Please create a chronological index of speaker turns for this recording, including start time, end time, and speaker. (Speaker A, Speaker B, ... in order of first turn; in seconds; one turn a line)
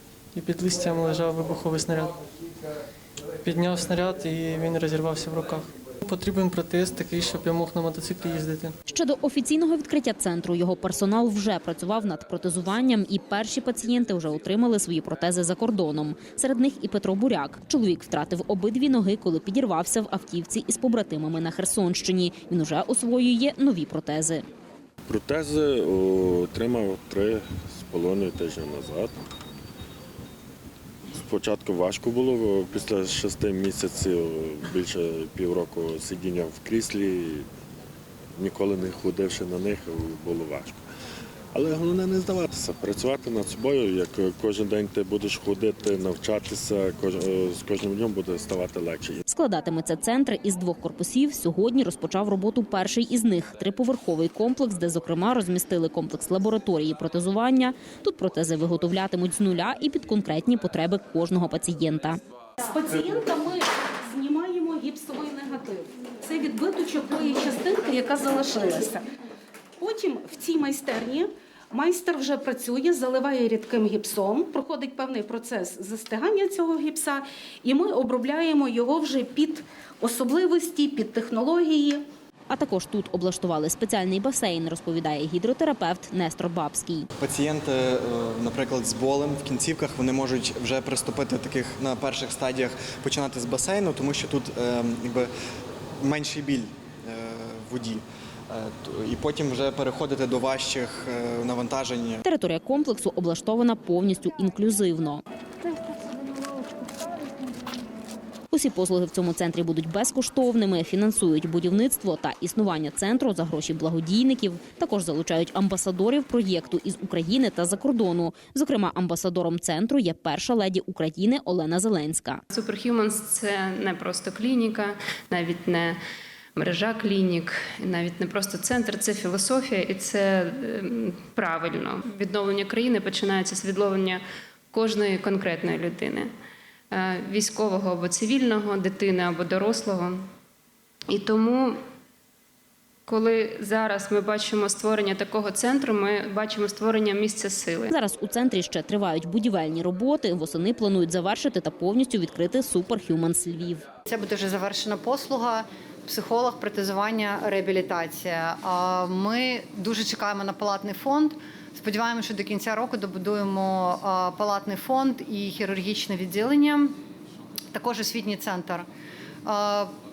Speaker A: 0.3-2.2
Speaker A: 3.4-8.8
Speaker B: 8.9-24.4
Speaker C: 25.1-29.1
Speaker C: 31.2-37.5
Speaker C: 38.4-40.8
Speaker C: 41.5-49.2
Speaker B: 49.3-62.2
Speaker D: 62.6-69.0
Speaker D: 69.8-82.1
Speaker B: 82.5-87.1
Speaker E: 87.2-95.3
Speaker E: 96.0-102.2
Speaker B: 102.2-105.2
Speaker B: 108.5-122.4
Speaker F: 122.5-126.0
Speaker F: 126.6-134.2
Speaker F: 134.7-136.3
Speaker F: 136.9-140.2
Speaker F: 141.1-141.8
Speaker F: 143.1-147.9
Speaker B: 147.9-153.8
Speaker G: 154.1-166.9
Speaker G: 167.7-168.9
Speaker G: 169.4-169.9